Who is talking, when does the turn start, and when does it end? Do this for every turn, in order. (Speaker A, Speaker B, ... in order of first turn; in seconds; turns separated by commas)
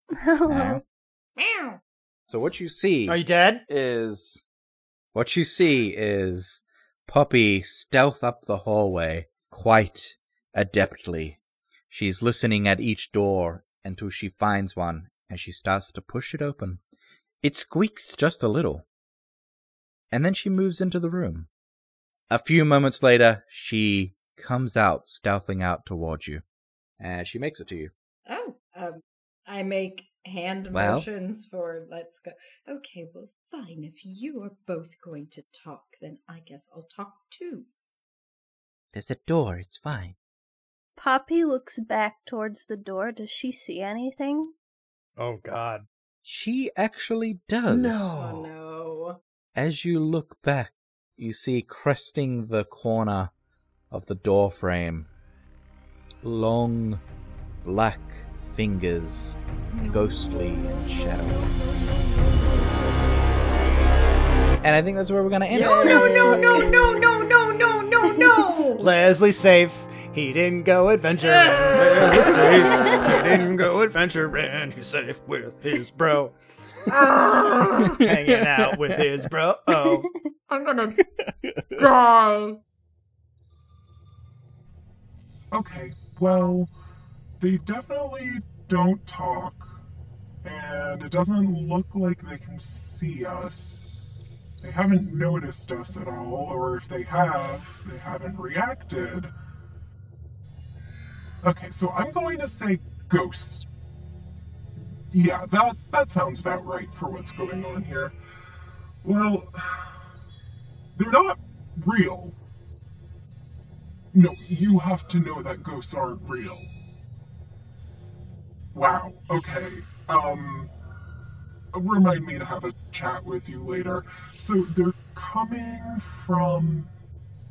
Speaker A: 0.2-0.8, Speaker B: 0.5-0.8, Speaker C: 1.4-1.8, Speaker B: 2.3-4.4, Speaker D: 3.1-3.6, Speaker B: 5.1-11.4, Speaker B: 11.9-16.8, Speaker B: 17.4-18.8, Speaker B: 20.1-21.5, Speaker B: 22.3-26.4, Speaker B: 27.0-27.9, Speaker C: 28.3-37.7, Speaker B: 30.7-31.1, Speaker B: 38.9-40.1, Speaker A: 41.0-44.5, Speaker D: 45.2-45.9, Speaker B: 46.2-48.1, Speaker D: 47.7-48.5, Speaker C: 48.1-49.2, Speaker B: 49.5-53.3, Speaker B: 53.9-55.1, Speaker B: 56.2-57.0, Speaker B: 57.6-59.4, Speaker B: 59.9-61.5, Speaker B: 64.6-66.4, Speaker D: 65.5-66.7, Speaker A: 65.6-66.9, Speaker C: 65.8-68.9, Speaker D: 68.8-76.3, Speaker C: 71.2-73.4, Speaker C: 76.9-78.0, Speaker B: 77.8-79.2, Speaker D: 78.0-80.1, Speaker A: 80.0-80.3, Speaker C: 80.5-81.0, Speaker B: 81.0-81.8, Speaker C: 81.8-82.6, Speaker E: 85.5-86.7, Speaker E: 87.4-89.7, Speaker E: 90.4-93.8, Speaker E: 94.6-99.3, Speaker E: 101.4-103.7, Speaker E: 105.1-108.1, Speaker E: 109.0-110.0, Speaker E: 111.0-112.3, Speaker E: 114.1-116.7, Speaker E: 118.7-120.7, Speaker E: 121.7-126.9